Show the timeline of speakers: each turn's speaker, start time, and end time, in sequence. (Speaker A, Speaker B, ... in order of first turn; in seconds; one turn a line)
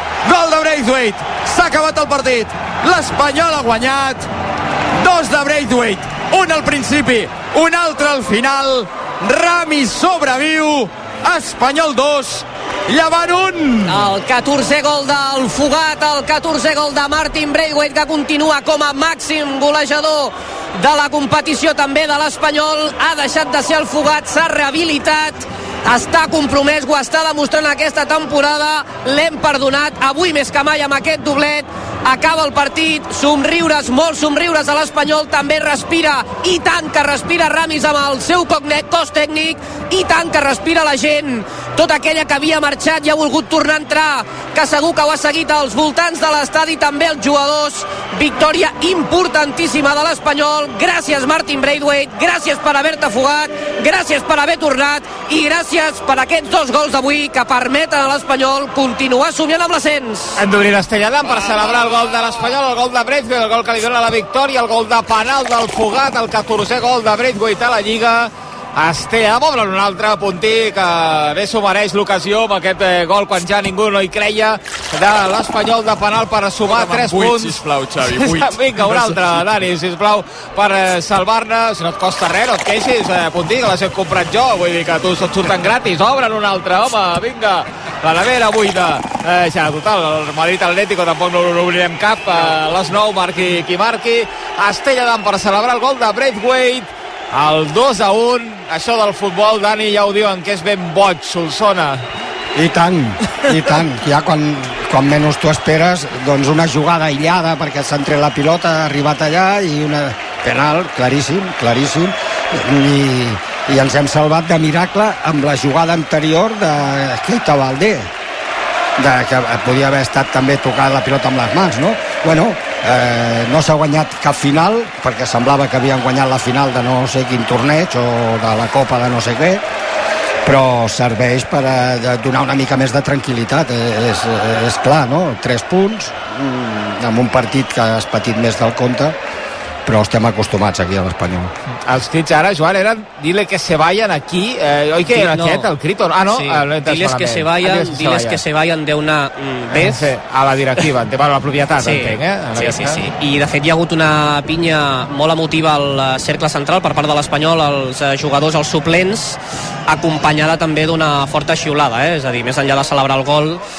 Speaker A: 0.2-4.3
Speaker A: 5.0-14.1
Speaker B: 13.9-60.4
Speaker C: 60.4-102.0
Speaker A: 76.7-79.2
Speaker D: 102.5-118.1
Speaker D: 119.0-129.6
Speaker D: 130.4-139.2
Speaker D: 139.8-141.5
Speaker C: 141.9-148.4
Speaker B: 145.1-145.7
Speaker B: 146.3-150.1
Speaker C: 149.7-153.0
Speaker B: 151.8-163.6